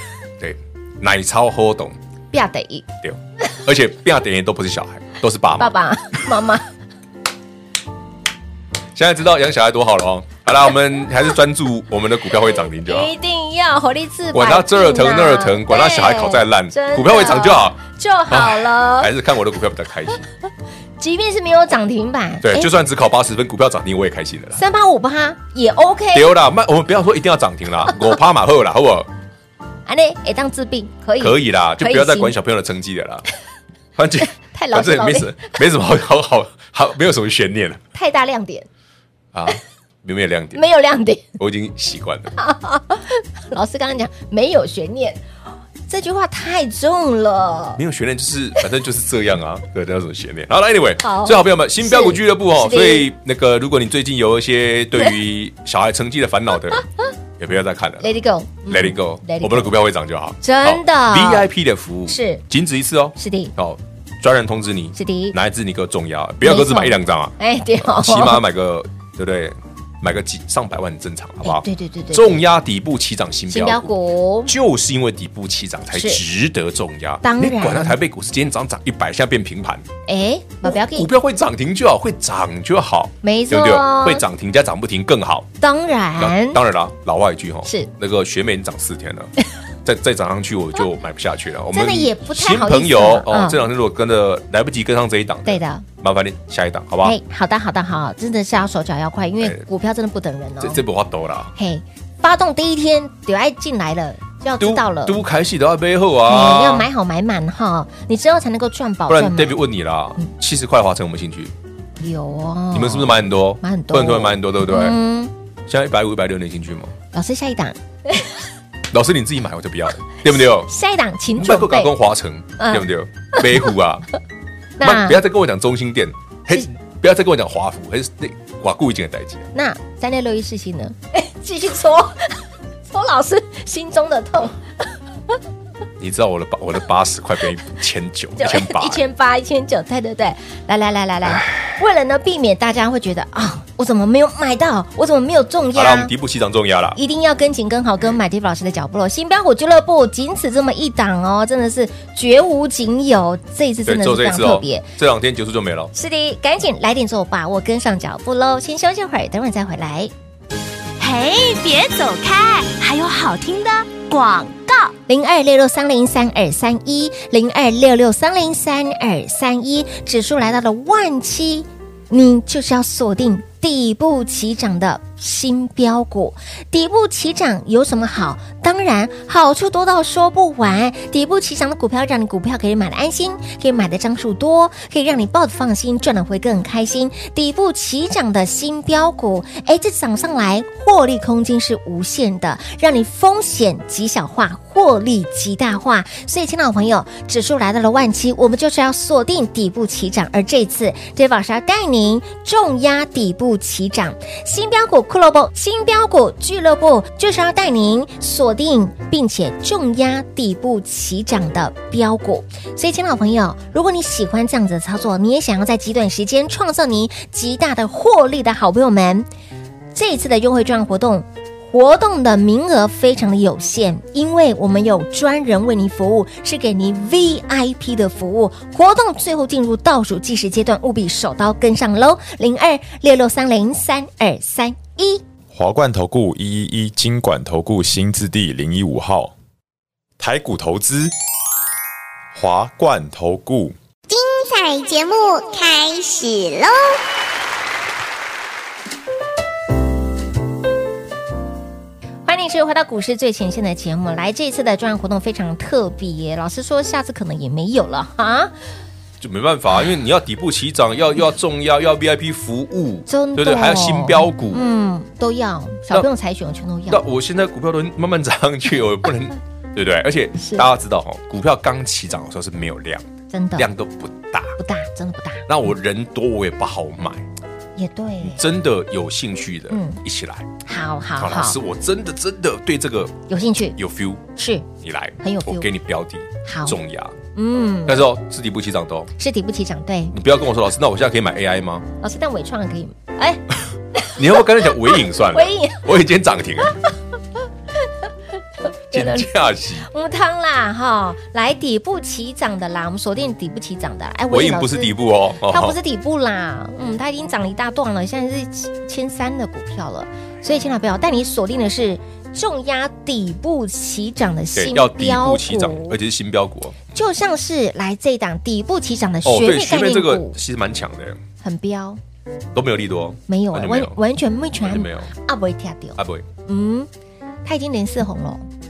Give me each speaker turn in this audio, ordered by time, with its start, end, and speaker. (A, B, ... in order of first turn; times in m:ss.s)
0:00.4-0:02.0 A
0:02.3-0:02.9 B
0:03.0-0:05.8 A
0:05.6-0:06.7 B
0:08.9-0:13.1 A
0:12.8-0:19.1 B
0:14.3-0:17.8 A
0:18.3-0:20.2 A
0:21.0-0:22.7 B
0:22.4-0:24.6 A
0:24.6-0:26.4 B
0:26.1-0:29.1 A
0:29.8-0:32.3 B
0:31.2-0:33.2 A
0:34.0-0:37.8 A
0:34.4-0:35.5 B
0:37.9-0:38.7 B
0:39.3-0:40.6 A
0:40.5-0:41.3 B
0:41.4-0:42.3 A
0:42.4-0:45.2 B
0:45.9-0:47.8 B
0:47.8-0:56.8 A
0:51.0-0:53.1 B
0:57.4-0:58.2 A
0:58.0-0:59.8 B
0:58.7-1:13.9 A
1:00.4-1:01.5 B
1:02.1-1:02.4 B
1:03.2-1:03.5 B
1:04.9-1:05.4 B
1:06.4-1:08.4 B
1:11.4-1:12.4 B
1:13.5-1:14.5 B
1:14.4-1:19.8 A
1:15.9-1:16.2 B
1:17.2-1:18.0 B
1:20.1-1:21.1 B
1:20.6-1:25.5 A
1:23.2-1:24.2 B
1:25.6-1:26.6 B
1:26.2-1:29.3 A
1:27.6-1:27.9 B
1:29.8-1:37.2 A
1:31.7-1:33.6 B
1:35.4-1:35.8 B
1:37.0-1:40.8 B
1:39.4-1:39.6 A
1:40.6-1:41.5 A
1:41.6-1:45.2 B
1:44.6-1:46.9 A
1:46.2-1:49.6 B
1:49.1-1:51.5 A
1:52.0-1:55.3 B
1:52.7-1:55.0 A
1:55.7-1:56.9 A
1:57.1-1:58.3 B
1:58.9-2:00.7 A
2:00.4-2:01.9 B
2:01.4-2:04.1 A
2:02.6-2:03.4 B
2:04.8-2:05.2 B
2:04.8-2:09.5 A
2:09.5-2:14.6 B
2:16.0-2:19.0 A
2:18.4-2:26.1 B
2:21.2-2:21.8 A
2:25.7-2:27.0 A
2:26.9-2:34.9 B
2:33.8-2:35.9 A
2:35.9-2:40.1 B
2:41.0-2:44.9 C
2:45.0-3:39.3 B
3:39.9-3:55.2 B
3:55.5-3:59.3 D
4:00.2-4:01.1 D
4:02.3-4:03.7 D
4:04.1-4:07.0 E
4:12.2-4:18.5 B
4:19.2-4:24.6 A
4:23.1-4:27.0 B
4:26.9-4:34.6 A
4:30.4-4:30.7 B
4:33.3-4:33.7 B
4:34.6-4:35.4 B
4:35.5-4:37.3 A
4:37.8-4:38.4 B
4:38.2-4:40.5 A
4:39.7-4:40.0 B
4:40.6-4:41.6 B
4:41.2-4:44.2 A
4:43.3-4:43.8 B
4:44.4-4:44.7 B
4:44.8-4:47.2 A
4:45.2-4:45.7 B
4:46.4-4:46.8 B
4:47.3-4:48.0 B
4:47.8-4:49.1 A
4:49.2-4:50.2 B
4:50.1-4:51.8 A
4:52.0-4:53.4 B
4:53.9-4:55.9 B
4:54.1-4:56.8 A
4:58.6-5:16.0 B
4:58.9-4:59.9 A
5:04.3-5:05.8 A
5:14.5-5:16.9 A
5:16.9-5:20.4 B
5:19.2-5:21.2 A
5:21.4-5:22.0 B
5:22.5-5:24.0 A
5:23.3-5:26.9 B
5:24.5-5:25.1 A
5:26.0-5:26.3 A
5:27.4-5:28.5 B